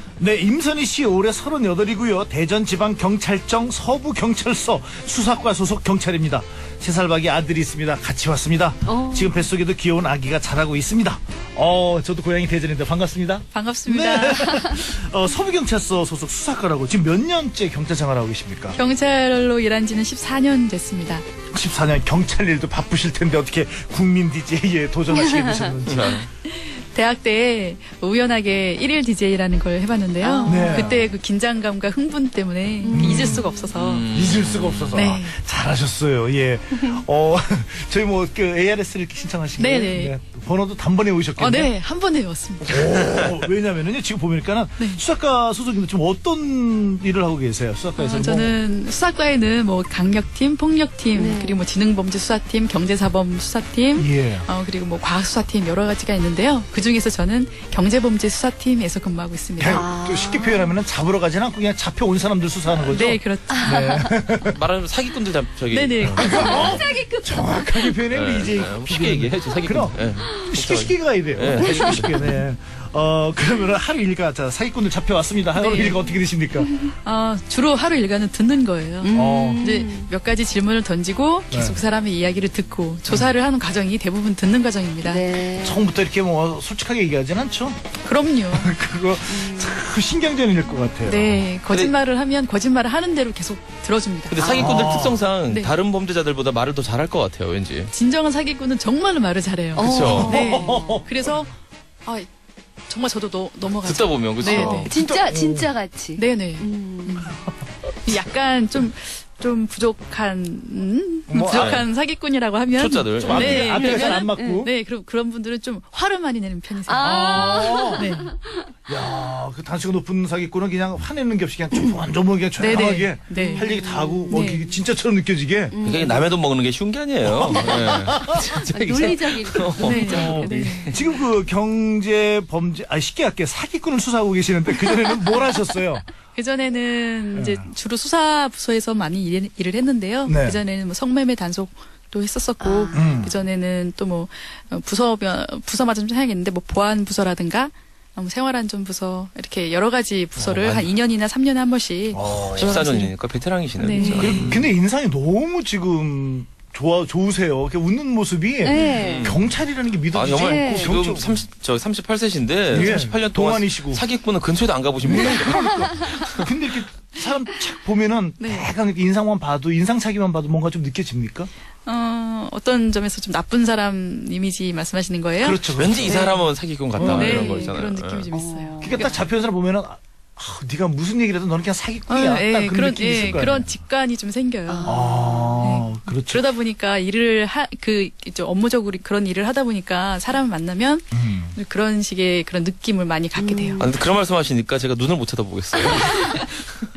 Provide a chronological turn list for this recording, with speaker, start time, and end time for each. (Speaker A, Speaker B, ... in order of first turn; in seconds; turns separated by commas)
Speaker A: 0.2-18.8, Speaker B: 8.9-9.3, Speaker C: 13.5-14.8, Speaker C: 18.7-21.2, Speaker A: 21.5-26.2, Speaker D: 25.9-26.3, Speaker C: 26.5-34.1, Speaker B: 30.2-30.9, Speaker A: 30.4-31.1, Speaker B: 32.8-33.7, Speaker A: 32.9-33.5, Speaker D: 33.7-35.0, Speaker A: 34.1-41.7, Speaker C: 34.9-35.4, Speaker C: 39.6-40.1, Speaker C: 41.4-42.8, Speaker A: 42.6-48.6, Speaker D: 43.0-43.3, Speaker C: 48.0-59.9, Speaker B: 51.1-51.6, Speaker A: 53.9-54.5, Speaker A: 59.6-64.6, Speaker B: 59.6-60.7, Speaker C: 62.9-63.8, Speaker B: 63.5-64.1, Speaker D: 64.4-66.7, Speaker C: 65.7-66.7, Speaker A: 66.0-76.7, Speaker B: 66.2-68.0, Speaker D: 68.1-72.4, Speaker B: 70.2-70.5, Speaker B: 71.6-72.0, Speaker C: 75.5-76.0, Speaker C: 76.8-85.3, Speaker B: 79.0-80.1, Speaker A: 79.1-79.8, Speaker A: 81.5-81.8, Speaker B: 85.0-85.8, Speaker A: 85.5-87.8, Speaker C: 88.0-88.7, Speaker A: 88.5-91.5, Speaker B: 89.3-89.8, Speaker C: 91.0-94.5, Speaker D: 94.3-97.9, Speaker B: 94.4-94.8, Speaker A: 94.6-95.2, Speaker C: 95.5-95.7, Speaker C: 97.9-102.3, Speaker B: 99.8-101.0, Speaker D: 99.8-100.5, Speaker A: 100.0-101.3, Speaker C: 102.9-104.9, Speaker D: 103.8-104.9, Speaker B: 104.4-107.3, Speaker A: 104.8-105.7, Speaker C: 106.2-107.4, Speaker C: 108.0-118.3, Speaker A: 111.3-111.8, Speaker D: 111.5-111.9, Speaker D: 112.7-114.0, Speaker A: 113.2-114.7, Speaker B: 113.5-114.7, Speaker B: 116.9-118.6, Speaker A: 117.0-118.2, Speaker A: 118.9-125.8, Speaker B: 121.7-122.0, Speaker C: 122.6-124.7, Speaker B: 123.3-124.6, Speaker B: 125.7-126.3, Speaker D: 125.8-131.1, Speaker A: 127.2-128.3, Speaker B: 127.5-130.4, Speaker A: 129.8-136.1, Speaker C: 129.8-130.9, Speaker C: 136.3-153.1, Speaker A: 137.3-137.7, Speaker A: 140.2-140.6, Speaker B: 142.6-143.2, Speaker A: 142.9-143.3, Speaker D: 150.4-150.9, Speaker A: 152.1-152.9, Speaker D: 152.4-154.6, Speaker C: 153.8-154.5, Speaker B: 153.9-154.3, Speaker A: 154.1-161.4, Speaker B: 158.6-159.4, Speaker D: 158.8-159.4, Speaker D: 160.1-166.5, Speaker B: 160.4-161.0, Speaker A: 162.7-164.1, Speaker A: 165.0-171.5, Speaker B: 165.6-165.8, Speaker C: 168.4-168.7, Speaker C: 171.8-176.4, Speaker A: 175.4-176.3, Speaker D: 175.7-178.3, Speaker A: 176.9-177.7, Speaker C: 177.0-179.2, Speaker B: 178.3-179.1, Speaker A: 178.8-183.7, Speaker C: 182.1-184.9, Speaker B: 184.7-185.7, Speaker A: 184.8-186.4, Speaker C: 185.6-193.9, Speaker A: 191.1-191.6, Speaker B: 193.3-193.8, Speaker D: 193.8-196.7